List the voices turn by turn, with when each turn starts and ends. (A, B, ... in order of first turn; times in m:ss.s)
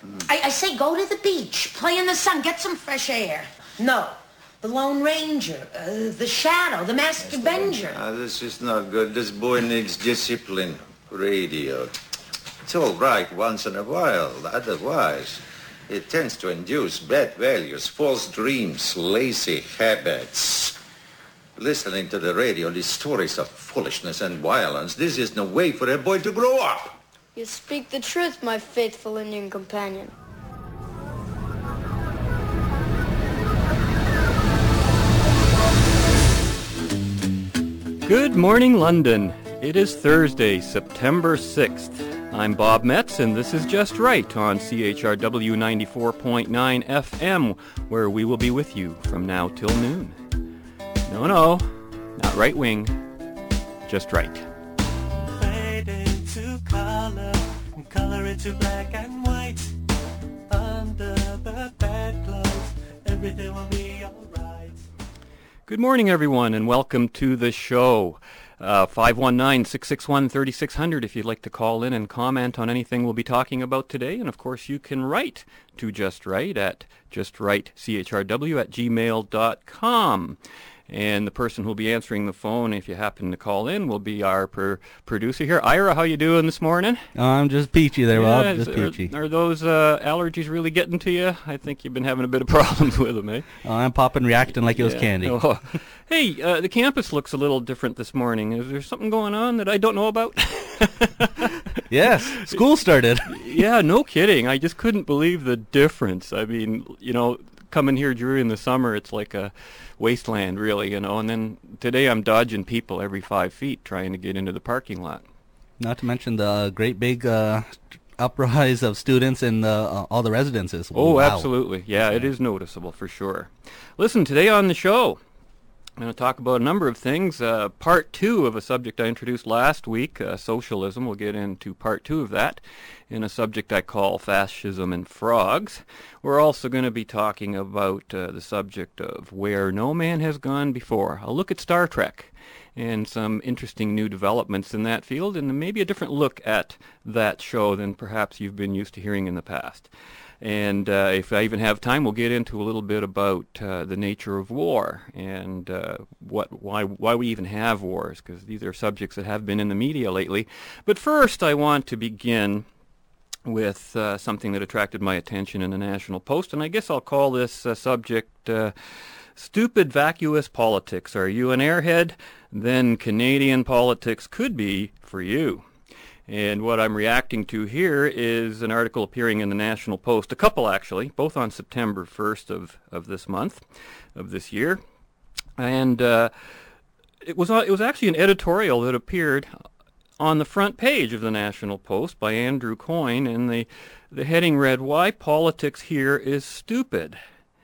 0:00.2-0:08.0 A
0:07.2-0:11.9 B
0:12.6-0:20.8 B
0:21.6-0:27.0 B
0:27.3-0:30.1 C
0:38.0-0:50.2 D
0:51.0-0:53.0 D
0:53.9-0:54.4 D
0:55.4-0:59.7 E
1:00.5-1:04.8 E
1:05.7-1:20.4 D
1:20.9-1:27.1 D
1:27.2-1:29.1 F
1:28.1-1:33.4 D
1:33.6-1:35.4 F
1:34.7-1:41.5 D
1:41.9-1:43.6 F
1:42.3-1:42.6 D
1:43.3-1:55.2 D
1:55.8-2:01.5 F
2:00.9-2:05.2 D
2:06.0-2:29.9 D
2:30.4-2:42.7 D
2:43.4-2:48.7 D
2:49.4-2:55.6 D
2:56.3-3:03.6 D
3:04.2-3:04.8 D
3:05.6-3:06.3 D
3:07.2-3:09.5 D
3:10.2-3:17.2 D